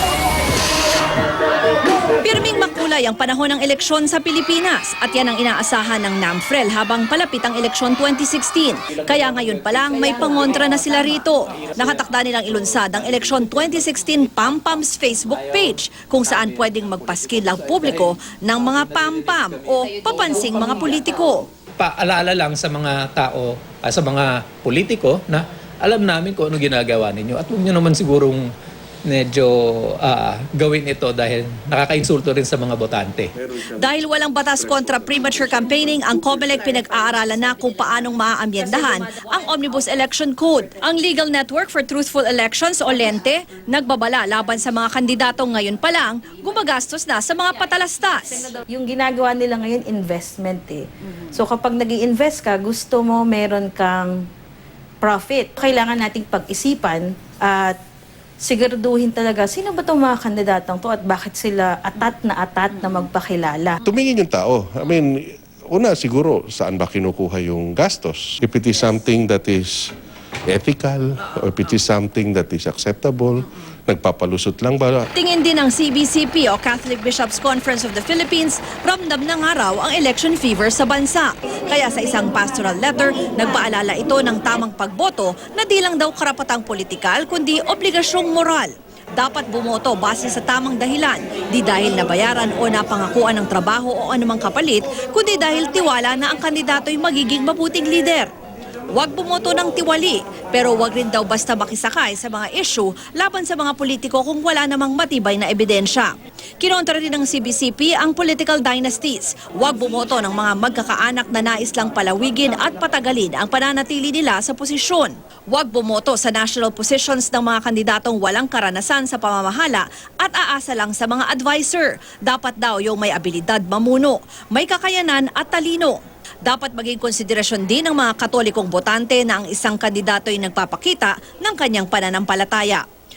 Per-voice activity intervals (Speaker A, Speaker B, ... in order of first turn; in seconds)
Speaker A: 2.2-21.5, 33.8-48.5, 75.2-98.3, 98.9-106.1, 106.6-126.0, 126.5-132.8
Speaker B: 9.1-9.8, 11.6-13.7, 15.3-15.7, 16.3-19.8, 21.8-28.5, 29.1-33.3
Speaker C: 33.4-34.0, 34.6-36.1, 63.8-69.9, 70.5-75.1
Speaker D: 48.7-54.2, 55.0-57.8, 58.4-63.8